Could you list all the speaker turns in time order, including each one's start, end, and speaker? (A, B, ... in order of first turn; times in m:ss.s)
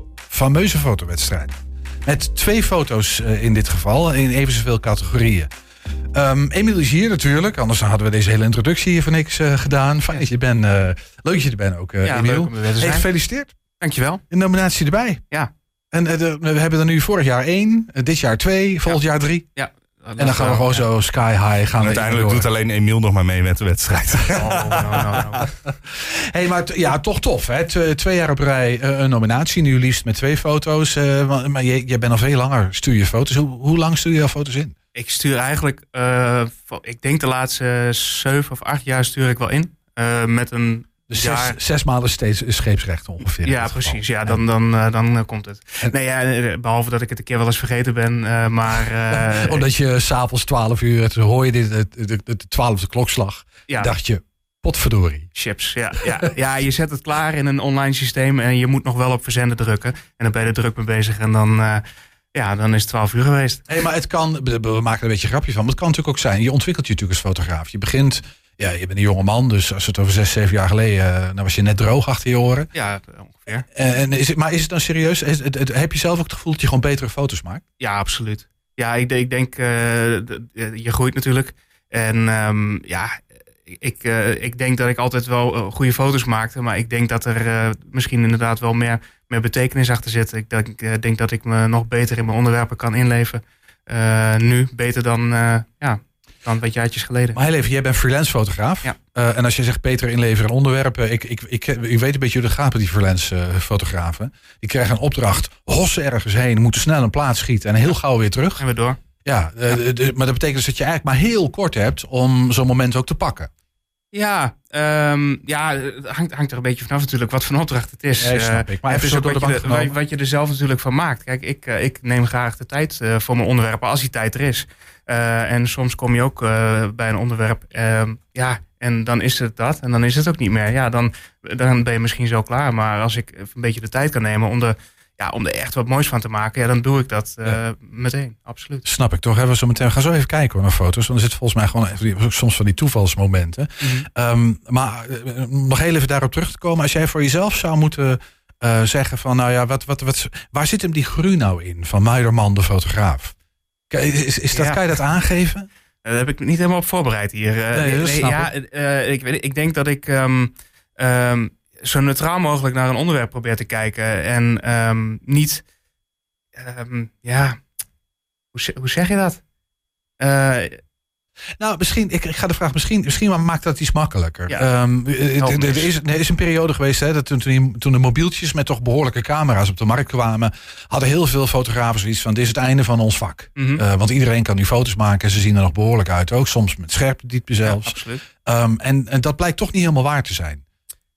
0:00.3-0:05.5 A
0:06.1-0:13.6 A
0:12.0-0:13.1 B
0:13.8-0:14.2 B
0:14.3-0:15.2 A
0:15.9-0:19.5 A
0:19.6-0:20.8 B
0:20.2-0:22.5 A
0:21.8-0:25.2 C
0:24.3-0:25.5 B
0:25.9-0:34.8 A
0:35.0-0:41.6 B
0:41.1-0:44.4 A
0:43.4-0:49.7 B
0:49.1-0:55.3 A
0:55.3-1:03.6 B
1:03.7-1:12.7 A
1:12.7-1:13.7 B
1:13.7-1:17.6 A
1:17.8-1:37.4 B
1:37.3-1:48.6 A
1:48.6-1:49.0 B
1:49.2-1:53.5 A
1:54.1-2:18.8 B
1:58.2-2:00.0 A
2:18.8-2:33.4 A
2:23.8-2:24.1 B
2:33.9-2:35.7 A
2:34.5-2:34.8 B
2:36.0-2:45.6 B
2:37.7-2:38.5 A
2:46.6-2:47.6 B
2:48.5-2:49.4 B
2:50.2-2:50.8 B
2:51.6-3:10.6 A
2:55.4-2:55.9 B
3:03.6-3:03.8 B
3:07.6-3:08.2 B